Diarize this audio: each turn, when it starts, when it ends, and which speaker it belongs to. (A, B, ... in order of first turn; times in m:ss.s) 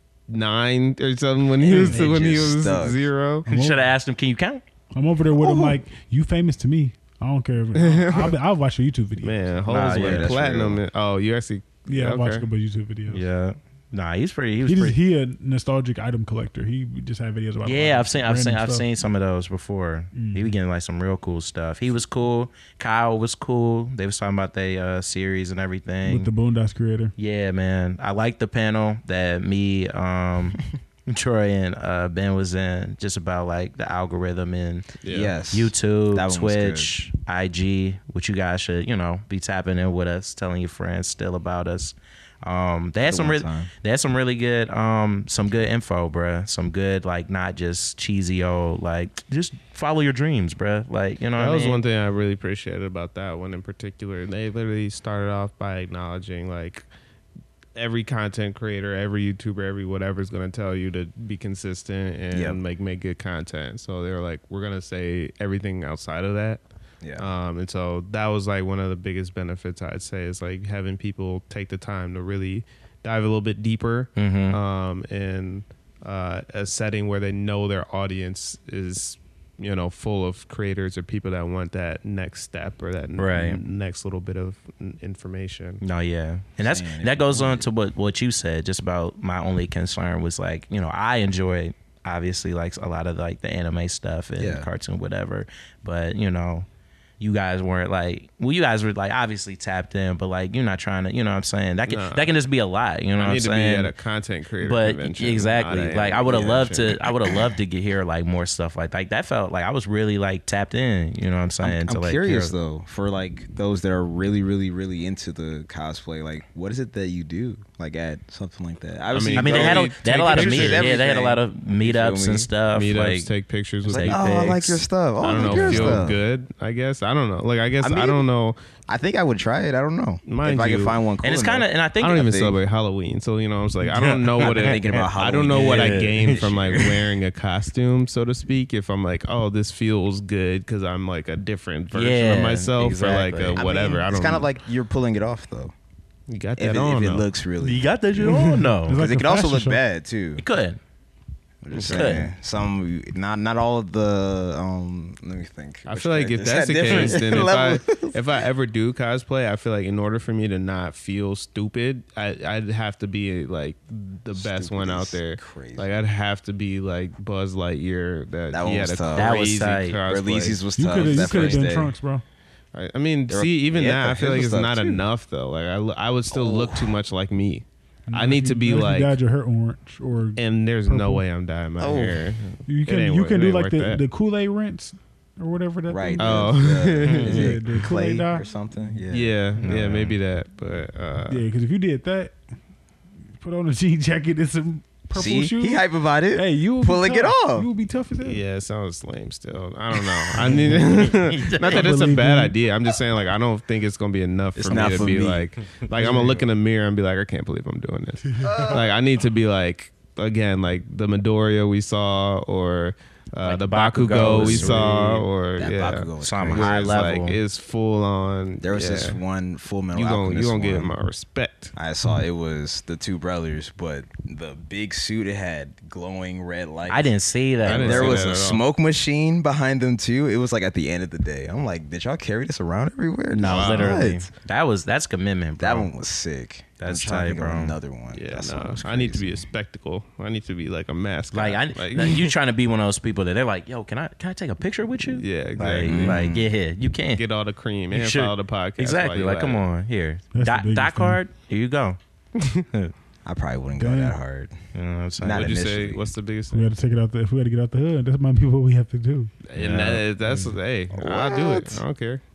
0:00.3-0:03.4 A
0:01.6-0:03.1 B
0:03.4-0:03.9 C
0:03.4-0:04.6 D
0:04.9-0:09.4 C
0:05.3-0:05.8 B
0:07.7-0:08.4 A
0:09.2-0:12.5 A
0:09.7-0:10.4 D
0:09.9-0:10.8 B
0:11.9-0:13.2 C
0:13.1-0:15.0 D
0:14.6-0:18.9 C
0:17.6-0:26.3 D
0:20.1-0:20.5 C
0:26.0-0:27.1 C
0:27.2-0:35.0 D
0:35.0-0:35.3 A
0:35.0-0:36.9 B
0:35.5-0:51.8 D
0:43.0-0:43.7 B
0:51.4-0:56.9 A
0:57.8-1:06.6 A
1:02.3-1:02.6 B
1:07.0-1:07.3 B
1:07.2-1:25.8 A
1:14.2-1:14.6 D
1:23.2-1:23.6 D
1:25.8-1:36.7 D
1:26.6-1:27.7 B
1:34.4-1:34.7 B
1:37.2-1:43.9 D
1:41.9-1:42.4 A
1:43.2-1:47.0 A
1:44.6-1:52.5 D
1:46.2-1:47.1 B
1:51.6-2:02.5 B
1:59.1-2:01.0 A
1:59.3-2:03.3 D
2:02.7-2:08.6 A
2:03.9-2:06.0 D
2:03.9-2:06.2 B
2:07.8-2:08.2 B
2:08.9-2:12.6 B
2:10.2-2:11.0 A
2:11.2-2:12.3 D
2:12.0-2:24.5 A
2:13.9-2:17.0 D
2:14.4-2:16.9 B
2:21.9-2:23.7 D
2:23.5-2:25.7 B
2:26.3-2:27.3 A
2:26.6-2:27.9 B
2:27.6-2:29.0 D
2:28.2-2:29.8 C
2:28.9-2:30.4 B
2:30.4-2:30.8 D
2:31.6-2:38.2 B
2:31.7-2:32.2 A
2:31.8-2:32.3 D
2:35.9-2:51.6 A
2:36.9-2:37.5 D
2:44.3-2:45.9 B
2:48.5-2:49.5 B
2:49.1-2:50.0 D
2:50.0-2:51.9 B
2:50.8-2:52.2 C
2:52.7-2:59.2 A
2:53.3-2:55.0 B
2:56.3-2:57.0 B
2:58.1-3:01.2 C
3:00.4-3:04.0 A
3:01.8-3:02.2 B
3:02.7-3:06.6 C
3:05.9-3:09.4 B
3:06.2-3:07.5 A
3:07.0-3:07.5 D
3:07.2-3:08.4 C
3:09.1-3:11.4 A
3:09.6-3:10.2 D
3:11.3-3:12.4 C
3:13.4-3:18.4 C
3:15.1-3:17.7 B
3:18.2-3:39.2 A
3:20.4-3:21.0 C
3:21.0-3:21.8 D
3:21.7-3:22.6 C
3:24.6-3:25.5 B
3:24.6-3:25.3 D
3:26.0-3:26.4 C
3:28.3-3:28.7 C
3:28.4-3:28.9 B
3:33.4-3:35.2 D
3:34.1-3:35.0 B
3:35.6-3:37.2 B
3:36.2-3:37.4 D
3:38.6-3:40.9 B
3:39.9-3:41.7 A
3:41.8-3:47.1 B
3:46.9-3:48.2 D
3:47.6-3:48.6 A
3:47.6-3:54.3 B
3:53.3-3:55.9 D
3:53.4-3:54.1 A
3:55.6-3:59.4 B
3:56.8-3:57.8 D
3:58.1-4:02.3 A
4:01.3-4:07.2 D
4:05.0-4:06.3 A
4:05.8-4:06.5 B
4:07.1-4:09.6 A
4:07.9-4:12.0 D
4:10.3-4:11.2 C
4:12.4-4:12.6 A
4:13.2-4:14.5 B
4:13.8-4:14.2 C
4:14.7-4:15.5 D
4:15.2-4:16.0 B
4:15.3-4:16.7 A
4:16.5-4:19.3 C
4:19.5-4:22.2 A
4:19.6-4:20.0 D
4:20.9-4:21.8 B